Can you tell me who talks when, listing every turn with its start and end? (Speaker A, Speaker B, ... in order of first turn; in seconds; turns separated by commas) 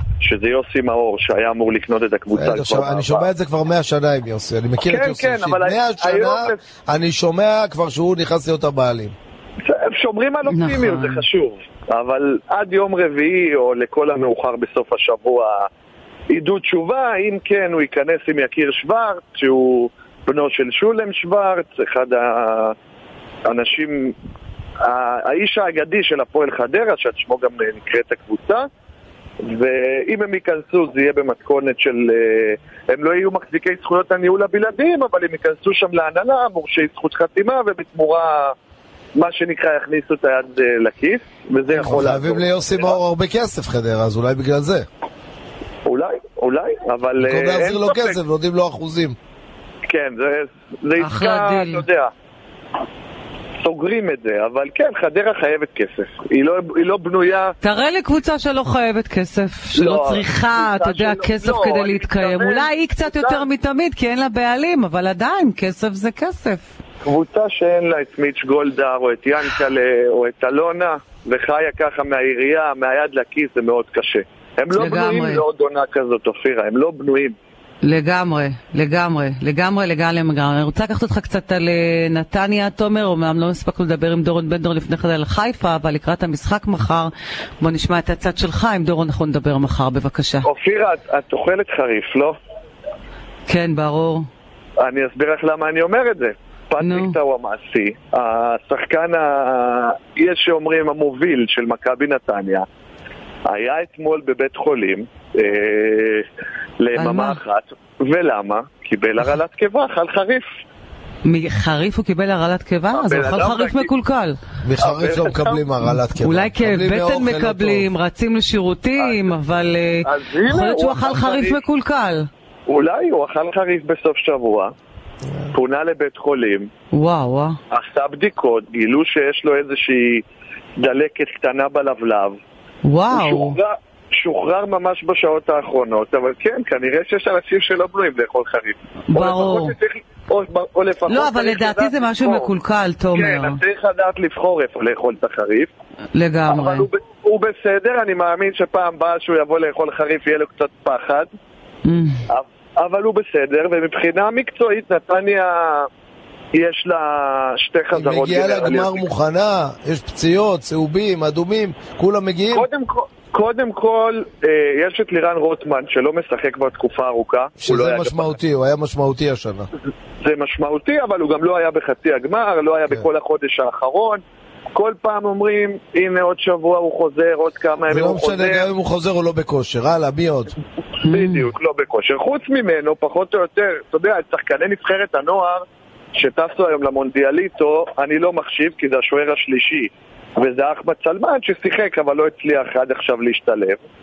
Speaker A: 0.2-3.3, Speaker B: 2.3-9.2, Speaker A: 4.8-6.6, Speaker A: 9.6-15.7, Speaker C: 10.5-11.2, Speaker A: 16.3-22.7, Speaker A: 23.5-24.1, Speaker A: 24.8-28.6, Speaker A: 29.4-38.5, Speaker A: 39.2-43.0, Speaker B: 41.7-44.9, Speaker A: 45.9-48.2, Speaker B: 47.2-49.2, Speaker A: 49.9-52.1, Speaker C: 51.0-51.8, Speaker A: 53.6-57.5, Speaker C: 57.6-66.7, Speaker A: 59.8-63.5, Speaker A: 67.0-77.4, Speaker C: 74.7-75.4, Speaker C: 77.8-90.5, Speaker A: 90.4-92.4, Speaker C: 93.5-94.3, Speaker A: 94.8-102.7, Speaker C: 96.8-97.2, Speaker A: 103.5-106.3, Speaker A: 106.8-110.5, Speaker C: 107.0-107.4, Speaker C: 111.2-114.4, Speaker A: 112.9-113.9, Speaker B: 114.6-117.9, Speaker A: 114.8-115.6, Speaker C: 116.2-122.3, Speaker A: 119.0-119.2, Speaker A: 120.0-121.6, Speaker A: 122.7-124.7, Speaker B: 125.3-125.5, Speaker A: 125.5-126.7, Speaker C: 126.9-127.6, Speaker A: 127.7-130.2, Speaker A: 130.8-132.4, Speaker C: 132.8-133.6, Speaker A: 133.1-142.5, Speaker C: 139.1-139.8, Speaker C: 141.1-143.6, Speaker A: 143.1-145.7, Speaker C: 146.2-146.9, Speaker A: 146.5-151.3, Speaker C: 151.9-152.2, Speaker A: 152.3-155.9, Speaker A: 156.5-159.1, Speaker B: 157.9-162.7, Speaker A: 162.5-168.3, Speaker B: 167.6-169.7, Speaker A: 170.2-174.2, Speaker A: 174.7-178.7, Speaker B: 177.9-180.5, Speaker C: 181.0-181.5, Speaker A: 181.1-193.8